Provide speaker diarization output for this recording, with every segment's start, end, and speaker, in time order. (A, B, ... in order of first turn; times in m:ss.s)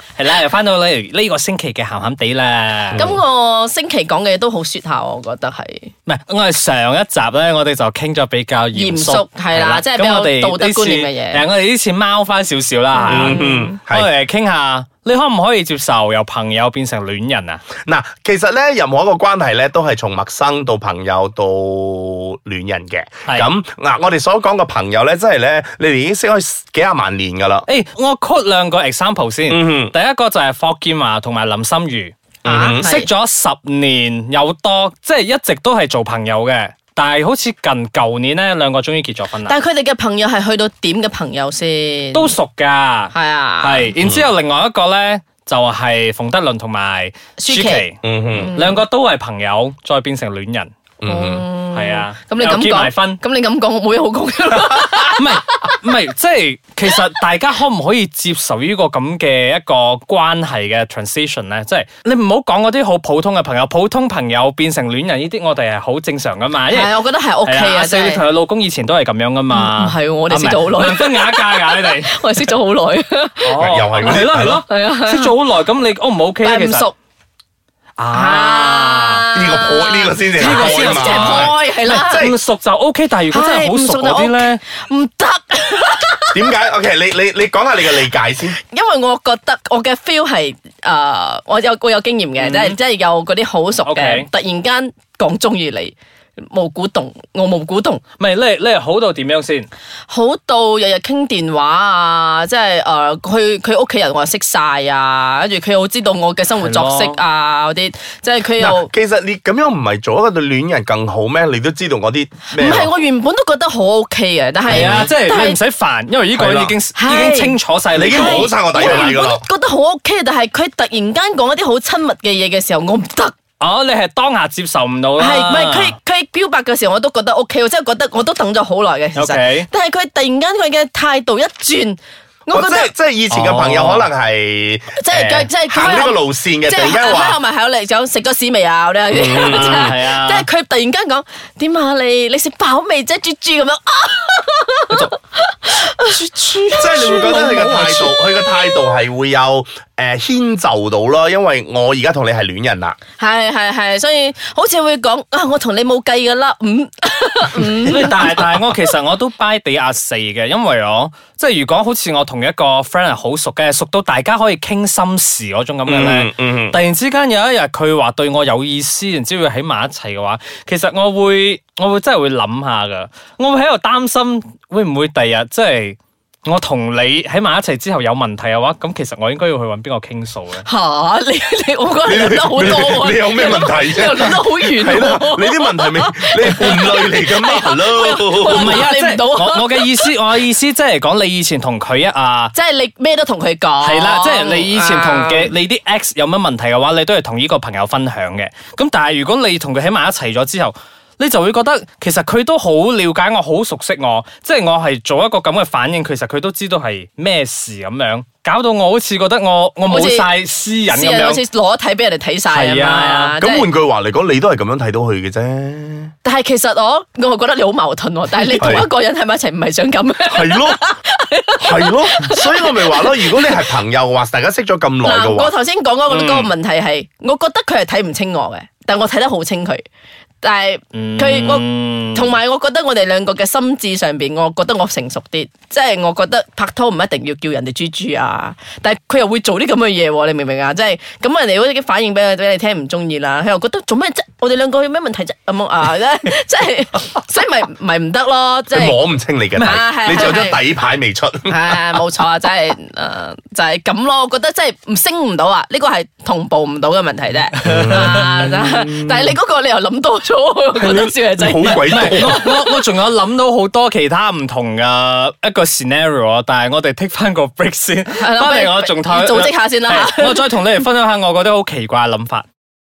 0:00.2-0:03.1 A
0:02.9-0:03.2 B
0:03.0-0:05.9 C
0:06.1-0:17.6 A
0:08.7-0:11.4 C
0:13.0-0:13.7 C
0:13.1-0:14.1 B
0:17.8-0:27.7 B
0:27.7-0:32.1 A
0:29.5-0:29.9 B
0:32.4-0:32.8 B
0:32.4-0:33.1 C
0:32.8-0:39.6 A
0:39.4-0:42.3 C
0:42.1-0:50.7 A
0:43.1-0:43.9 C
0:44.0-0:44.3 B
0:47.4-0:48.8 C
0:48.0-0:48.6 B
0:51.0-0:51.5 B
0:51.0-0:55.8 C
0:51.7-0:53.2 A
0:55.2-1:12.2 A
1:06.7-1:08.2 C
1:09.5-1:15.3 C
1:13.4-1:16.9 A
1:13.6-1:14.6 B
1:16.4-1:16.9 C
1:18.0-1:19.2 A
1:18.1-1:22.3 C
1:19.3-1:22.4 B
1:20.4-1:24.6 A
1:23.3-1:26.5 C
1:26.3-1:28.6 B
1:28.6-1:38.0 C
1:32.4-1:32.8 A
1:33.8-1:34.3 A
1:38.2-1:39.7 A
1:40.1-1:48.9 C
1:46.6-1:47.2 A
1:48.6-1:52.9 B
1:52.5-1:55.6 C
1:54.7-1:55.1 B
1:54.7-1:59.1 A
1:56.4-1:56.8 B
1:57.0-1:57.6 C
1:57.9-1:59.4 B
1:58.1-2:03.4 C
2:03.6-2:06.0 A
2:05.2-2:12.9 C
2:09.2-2:09.7 A
2:12.5-2:17.4 B
2:13.3-2:14.1 A
2:15.0-2:28.8 C
2:19.1-2:20.0 B
2:19.4-2:20.5 A
2:26.8-2:33.0 B
2:33.2-2:38.6 C
2:37.9-3:00.6 A
2:37.9-2:38.2 B
2:45.9-2:46.8 B
3:00.6-3:10.1 C
3:02.1-3:08.8 B
3:08.5-3:12.5 A
3:12.5-3:15.5 C
3:13.8-3:31.4 A
3:29.9-3:30.3 C
3:30.9-3:33.7 C
3:32.5-3:33.4 A
3:33.4-3:36.1 B
3:36.2-3:43.6 C
3:38.6-3:38.9 B
3:40.3-3:40.8 B
3:41.6-3:45.5 B
3:45.0-3:49.8 C
3:46.1-3:46.5 A
3:50.4-4:09.0 C
3:50.9-3:52.4 A
4:08.7-4:12.0 B
4:09.6-4:09.8 A
4:09.6-4:10.6 C
4:11.5-4:22.5 C
4:17.6-4:18.3 A
4:17.6-4:19.3 B
4:20.8-4:22.5 B
4:21.9-4:32.5 A
4:28.2-4:30.5 C